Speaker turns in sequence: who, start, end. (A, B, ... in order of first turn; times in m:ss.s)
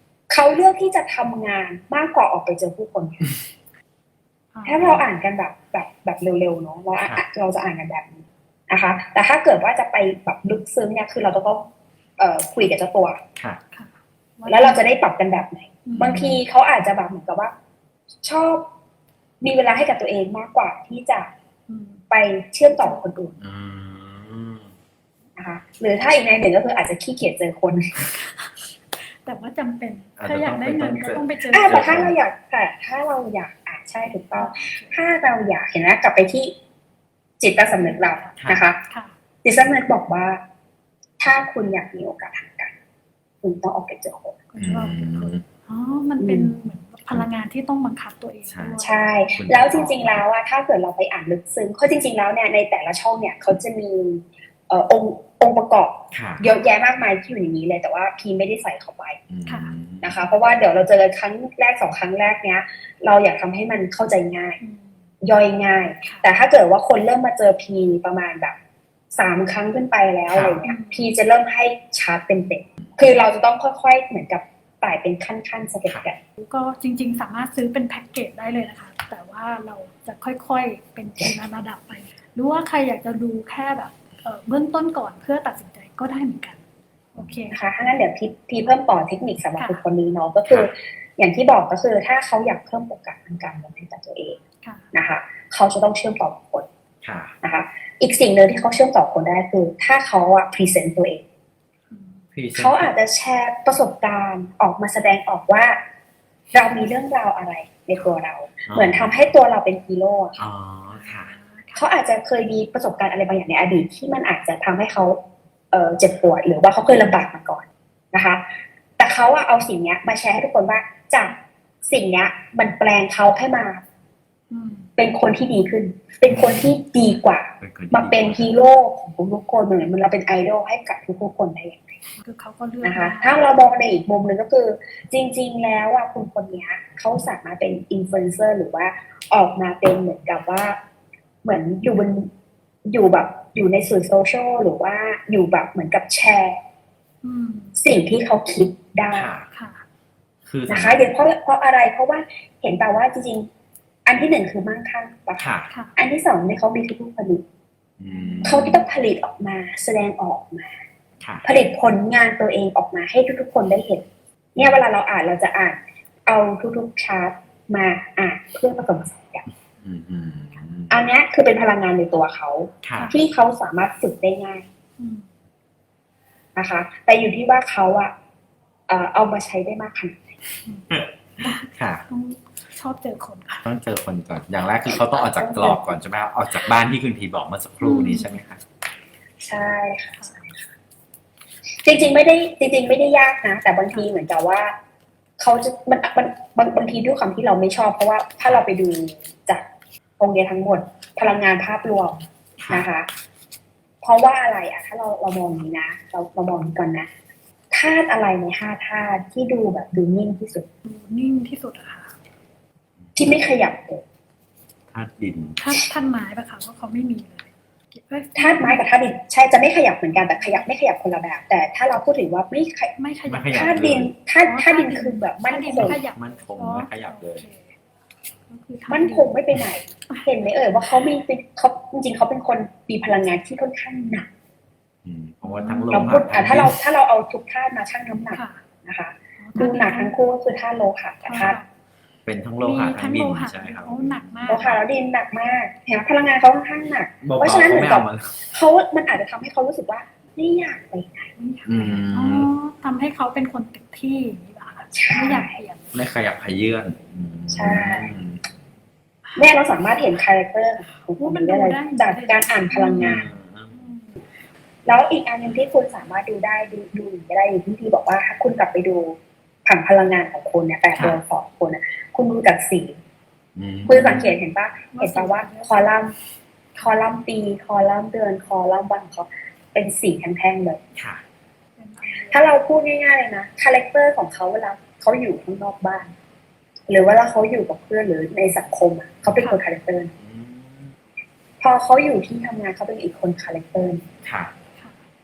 0:00.3-0:03.3 A
0:04.5-0:04.8 B
0:04.6-0:11.7 A
0:04.8-0:05.0 C
0:07.0-0:07.2 C
0:12.2-0:13.2 A
0:13.7-0:14.8 B
0:14.5-0:17.5 A
0:15.8-0:16.2 B
0:16.0-0:16.4 C
0:18.2-0:18.7 A
0:19.4-0:21.3 A
0:21.7-0:22.0 B
0:22.1-0:23.4 A
0:22.7-0:23.1 B
0:23.4-0:24.7 C
0:25.4-0:27.9 A
0:28.0-0:32.0 B
0:30.2-0:32.1 C
0:31.5-0:36.6 A
0:34.3-0:35.0 B
0:37.4-0:38.8 A
0:37.7-0:39.1 B
0:38.4-0:38.6 C
0:39.4-0:40.4 A
0:41.2-0:42.7 A
0:43.4-0:44.4 A
0:44.5-0:49.5 B
0:44.6-0:45.4 C
0:46.2-0:46.5 A
0:48.5-0:48.8 C
0:48.8-0:59.2 A
0:49.4-0:50.2 C
0:56.1-0:56.5 C
0:59.3-1:00.2 C
0:59.5-0:59.7 B
1:00.0-1:04.6 A
1:04.6-1:05.0 B
1:05.2-1:08.6 A
1:06.0-1:06.3 B
1:09.1-1:16.2 A
1:10.3-1:10.6 C
1:10.6-1:11.1 B
1:16.4-1:26.6 B
1:27.1-1:27.6 B
1:27.5-1:34.4 A
1:29.6-1:29.8 B
1:30.5-1:30.7 C
1:34.6-1:34.9 B
1:34.9-1:36.7 A
1:37.0-1:37.4 C
1:37.4-1:41.2 A
1:41.9-1:42.2 B
1:42.3-1:42.9 C
1:42.6-1:45.8 A
1:46.5-1:50.4 A
1:48.7-1:49.1 C
1:50.4-1:51.4 C
1:50.9-1:51.8 B
1:51.8-1:55.2 A
1:55.7-1:58.5 A
1:59.0-2:03.8 A
2:04.5-2:04.9 B
2:05.0-2:12.0 A
2:06.3-2:06.8 C
2:07.6-2:08.5 C
2:12.2-2:13.4 B
2:12.8-2:20.8 A
2:21.4-2:22.3 A
2:22.9-2:26.6 A
2:27.2-2:27.8 B
2:27.8-2:29.3 A
2:29.1-2:29.5 C
2:29.5-2:29.8 B
2:30.5-2:31.1 C
2:30.7-2:33.5 A
2:34.1-2:37.4 A
2:35.4-2:35.7 C
2:35.7-2:36.0 B
2:38.0-2:38.8 C
2:38.1-2:38.9 B
2:38.4-2:40.8 A
2:41.2-2:41.5 C
2:41.4-2:44.0 A
2:44.6-2:49.4 A
2:49.8-2:51.0 C
2:50.9-2:54.7 A
2:52.8-2:53.1 C
2:52.9-2:53.2 B
2:55.0-2:55.3 B
2:56.6-2:58.1 A
2:58.9-3:00.2 A
3:00.6-3:03.7 B
3:00.9-3:02.1 C
3:03.6-3:08.6 C
3:04.9-3:06.0 A
3:07.8-3:08.4 B
3:09.4-3:10.5 A
3:10.2-3:10.5 B
3:11.8-3:14.8 A
3:15.4-3:19.6 A
3:20.2-3:23.1 A
3:22.6-3:22.9 C
3:24.0-3:27.1 A
3:27.7-3:30.7 A
3:30.8-3:32.2 B
3:33.2-3:34.0 A
3:34.9-3:35.6 C
3:35.6-3:38.8 B
3:38.4-3:42.9 A
3:40.1-3:40.7 B
3:43.0-3:47.8 B
3:43.3-3:44.1 C
3:43.5-3:46.0 A
3:45.7-3:47.4 C
3:48.5-3:49.3 B
3:48.9-3:54.3 A
3:50.1-3:51.1 B
3:55.0-3:56.8 C
3:55.4-3:56.2 B
3:55.9-4:01.6 A
3:58.3-3:58.6 B
3:59.4-4:00.2 B
4:01.2-4:01.7 B
4:02.2-4:04.8 C
4:02.6-4:04.7 B
4:04.5-4:11.3 A
4:07.2-4:08.4 C
4:11.4-4:15.9 B
4:11.6-4:12.5 C
4:14.9-4:15.6 A
4:15.9-4:18.4 C
4:17.5-4:18.1 A
4:19.4-4:23.3 A
4:21.2-4:24.2 B
4:23.0-4:23.8 C
4:24.9-4:33.0 A
4:30.9-4:31.2 C
4:33.6-4:34.3 C
4:33.9-4:36.2 A
4:33.9-4:34.3 B
4:34.9-4:36.0 B
4:36.8-4:37.0 B
4:36.8-4:40.8 A
4:41.0-4:41.2 C
4:41.8-4:42.5 B
4:42.3-4:46.1 A
4:46.9-4:50.1 A
4:49.3-4:49.6 B
4:50.2-4:51.0 C
4:51.6-4:54.0 A
4:54.2-4:54.5 C
4:54.8-4:55.0 B